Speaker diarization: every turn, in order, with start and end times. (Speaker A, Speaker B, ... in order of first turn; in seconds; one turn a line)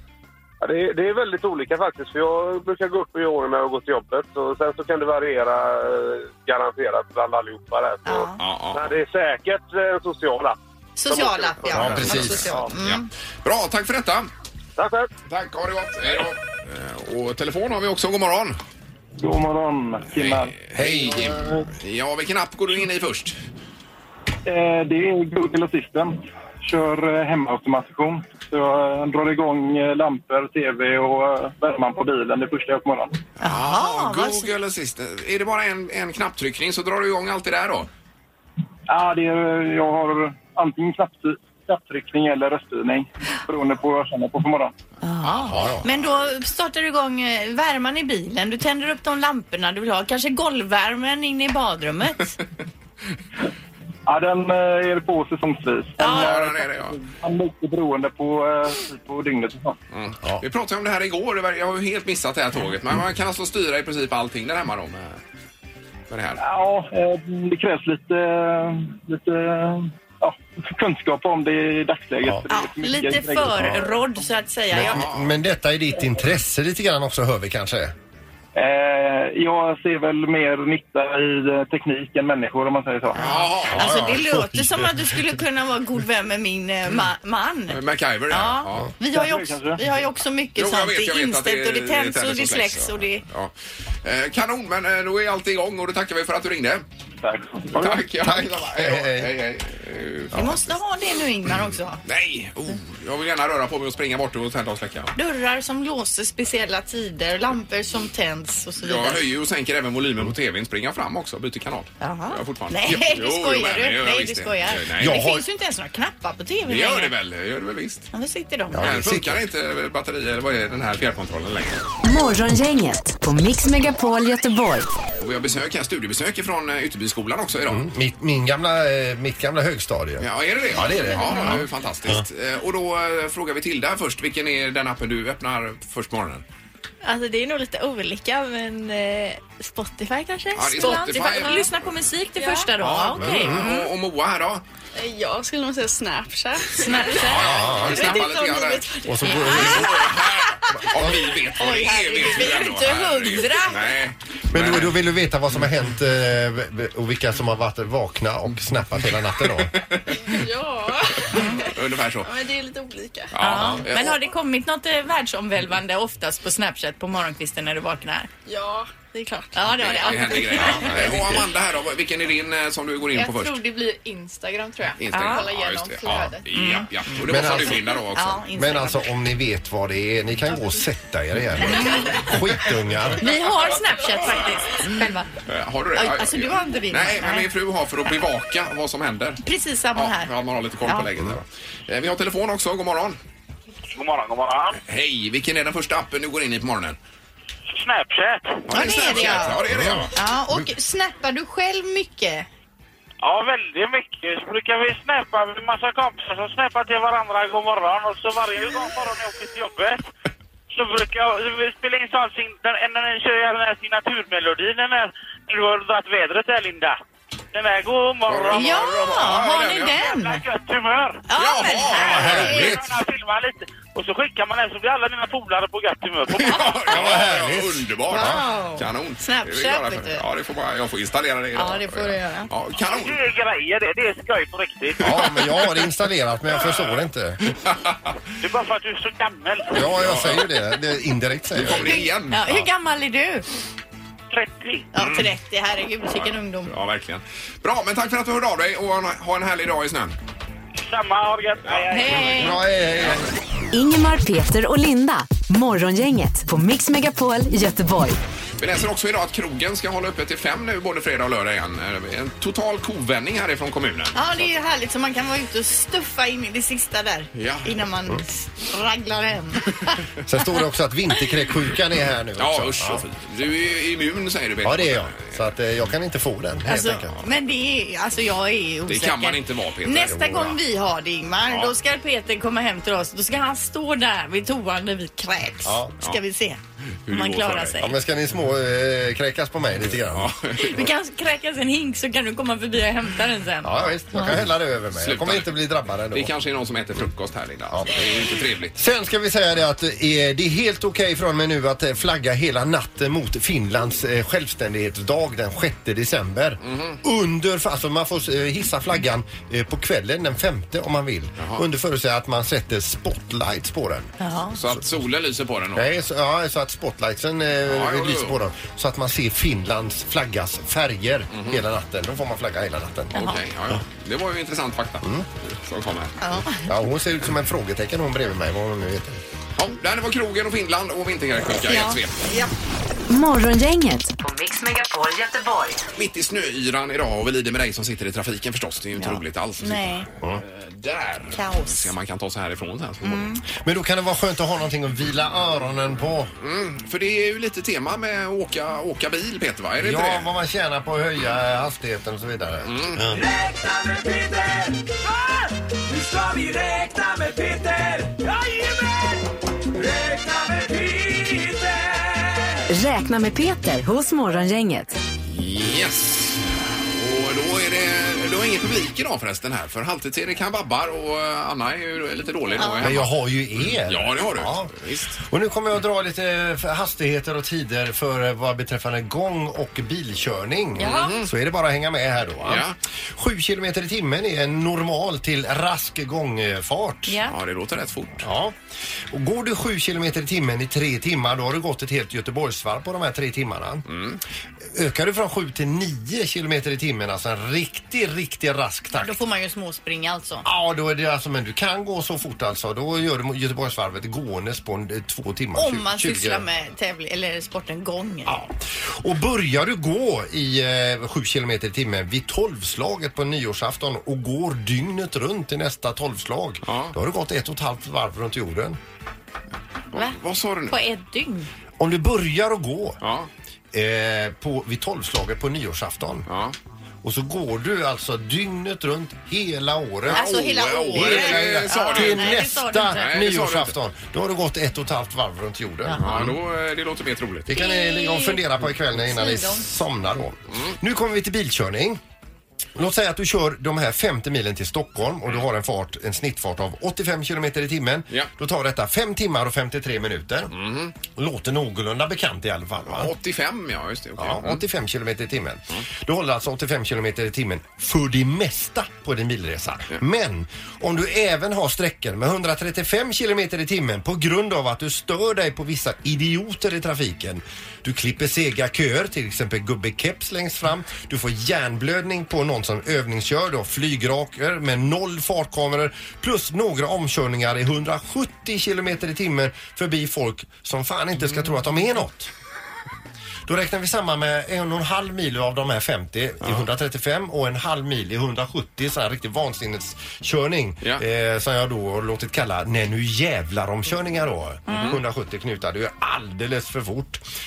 Speaker A: 0.6-10.6
Speaker B: 8.1-8.4
Speaker C: 8.4-8.9
Speaker B: 11.0-13.1
Speaker A: 11.1-12.7
Speaker D: 11.7-12.7
Speaker C: 11.9-12.3
Speaker C: 12.8-14.3
Speaker A: 14.8-15.1
Speaker C: 15.3-18.6
Speaker E: 19.2-20.6
Speaker C: 20.1-23.4
Speaker D: 20.8-21.6
Speaker E: 24.5-33.2
Speaker C: 33.4-37.9
Speaker B: 33.4-34.5
Speaker E: 38.9-44.7
Speaker B: 45.0-52.4
Speaker C: 45.2-46.0
Speaker D: 45.5-45.9
Speaker E: 54.1-59.8
Speaker B: 56.0-56.3
Speaker C: 56.0-57.0
Speaker C: 59.9-65.2
Speaker C: 66.1-66.4
Speaker E: 66.4-74.0
Speaker B: 72.5-75.0
Speaker D: 74.7-77.9
Speaker C: 74.8-75.3
Speaker E: 78.5-83.2
Speaker B: 83.2-93.2
Speaker C: 83.2-84.1
Speaker D: 83.7-85.2
Speaker C: 87.7-88.9
Speaker E: 89.0-89.8
Speaker C: 90.6-93.5
Speaker C: 94.0-96.8
Speaker E: 97.2-98.0
Speaker C: 97.7-100.8
Speaker D: 98.2-99.3
Speaker B: 100.3-102.0
Speaker C: 102.0-105.2
Speaker B: 105.2-109.2
Speaker C: 108.8-115.2
Speaker B: 112.0-117.1
Speaker D: 115.0-115.4
Speaker C: 116.7-118.1
Speaker B: 118.1-118.9
Speaker D: 118.7-119.4
Speaker C: 118.8-121.9
Speaker F: 122.0-124.9
Speaker C: 125.2-127.9
Speaker D: 127.7-132.2
Speaker C: 130.2-136.4
Speaker G: 137.0-141.7
Speaker C: 140.6-141.7
Speaker B: 140.7-143.9
Speaker G: 142.3-142.8
Speaker C: 142.8-144.6
Speaker D: 143.1-143.7
Speaker G: 144.9-149.9
Speaker B: 146.8-148.2
Speaker C: 147.2-155.0
Speaker D: 147.3-148.2
Speaker D: 149.1-150.0
Speaker B: 149.2-150.5
Speaker D: 150.9-151.2
Speaker B: 151.6-153.9
Speaker D: 154.5-159.8
Speaker C: 159.7-160.1
Speaker G: 160.1-161.7
Speaker C: 161.6-162.3
Speaker G: 162.2-163.3
Speaker C: 163.3-164.2
Speaker B: 163.4-168.3
Speaker D: 163.6-163.8
Speaker G: 168.5-170.9
Speaker B: 169.5-171.4
Speaker C: 169.8-173.6
Speaker D: 170.9-171.3
Speaker G: 173.2-176.4
Speaker C: 175.0-178.4
Speaker B: 175.1-175.5
Speaker B: 176.5-176.9
Speaker D: 177.2-178.0
Speaker B: 178.1-179.0
Speaker D: 178.5-183.3
Speaker B: 181.7-182.2
Speaker B: 183.2-185.3
Speaker C: 185.5-189.4
Speaker B: 185.9-187.5
Speaker B: 189.4-190.3
Speaker C: 189.9-193.2
Speaker H: 193.9-194.8
Speaker C: 194.8-197.0
Speaker H: 197.7-198.7
Speaker C: 198.7-200.1
Speaker B: 198.7-199.6
Speaker D: 199.6-200.6
Speaker B: 200.1-202.5
Speaker H: 203.2-210.1
Speaker H: 210.7-217.0
Speaker H: 217.5-219.2
Speaker C: 218.3-220.0
Speaker B: 218.5-220.4
Speaker H: 220.0-221.2
Speaker B: 221.3-222.8
Speaker C: 221.4-222.8
Speaker H: 222.0-226.8
Speaker D: 222.1-222.8
Speaker C: 226.3-233.2
Speaker D: 226.9-228.4
Speaker B: 228.1-230.2
Speaker B: 231.6-232.5
Speaker H: 232.9-235.2
Speaker D: 235.0-237.5
Speaker C: 235.0-235.6
Speaker C: 237.6-238.1
Speaker H: 238.4-239.8
Speaker D: 239.7-242.0
Speaker C: 239.8-240.5
Speaker C: 241.6-242.7
Speaker B: 241.7-243.5
Speaker H: 244.3-244.9
Speaker B: 244.9-246.7
Speaker C: 245.0-245.3
Speaker C: 246.2-250.2
Speaker H: 250.8-252.6
Speaker C: 251.7-252.4
Speaker B: 251.9-252.6
Speaker D: 252.3-253.3
Speaker F: 253.7-258.2
Speaker C: 258.6-264.3
Speaker B: 264.1-270.0
Speaker C: 267.3-267.8
Speaker D: 270.2-273.0
Speaker C: 272.4-275.4
Speaker D: 274.6-277.1
Speaker B: 276.7-287.9
Speaker C: 278.9-280.4
Speaker D: 280.1-280.6
Speaker C: 281.5-281.7
Speaker D: 285.6-285.9
Speaker C: 287.1-287.8
Speaker D: 287.8-290.4
Speaker C: 290.1-290.8
Speaker B: 290.6-294.4
Speaker D: 293.6-296.3
Speaker C: 294.2-295.5
Speaker C: 296.1-298.8
Speaker D: 297.7-298.0
Speaker D: 298.8-314.1
Speaker C: 306.6-307.0
Speaker B: 314.2-314.6
Speaker C: 314.6-315.9
Speaker D: 315.8-323.3
Speaker C: 317.7-318.4
Speaker C: 321.3-321.6
Speaker B: 323.1-323.4
Speaker C: 323.1-326.2
Speaker D: 325.0-325.3
Speaker B: 326.2-326.7
Speaker D: 326.5-329.2
Speaker C: 329.6-332.2
Speaker B: 331.7-332.5
Speaker F: 333.1-335.8
Speaker C: 336.0-343.4
Speaker B: 339.0-340.1
Speaker B: 341.3-341.9
Speaker B: 343.0-343.4
Speaker D: 343.6-346.3
Speaker C: 346.4-350.3
Speaker D: 349.8-353.2
Speaker C: 352.6-353.0
Speaker G: 353.1-362.6
Speaker F: 362.7-365.0
Speaker C: 365.3-375.2
Speaker B: 372.6-372.9
Speaker D: 372.8-387.2
Speaker B: 380.8-381.1
Speaker C: 380.8-381.3
Speaker C: 382.4-382.8
Speaker B: 387.1-387.3
Speaker C: 387.3-388.3
Speaker D: 388.2-388.6
Speaker D: 389.1-393.9
Speaker C: 393.9-394.2
Speaker D: 394.6-399.2
Speaker B: 398.9-400.4
Speaker D: 400.4-406.4
Speaker B: 405.6-408.4
Speaker D: 408.3-418.8
Speaker C: 416.7-416.9
Speaker C: 419.9-420.8
Speaker B: 420.7-421.5
Speaker D: 421.8-423.0
Speaker C: 423.0-423.3
Speaker D: 423.7-426.3
Speaker C: 426.3-426.6
Speaker D: 427.0-430.4
Speaker C: 430.1-433.8
Speaker B: 430.1-433.1
Speaker D: 430.9-436.4
Speaker B: 435.9-436.2
Speaker C: 436.0-437.5
Speaker D: 437.5-442.0
Speaker B: 437.5-438.4
Speaker B: 439.0-439.7
Speaker D: 442.8-450.5
Speaker C: 450.5-450.9
Speaker D: 451.1-453.1
Speaker C: 452.9-454.6
Speaker D: 454.2-482.3
Speaker D: 483.5-497.2
Speaker C: 494.7-495.0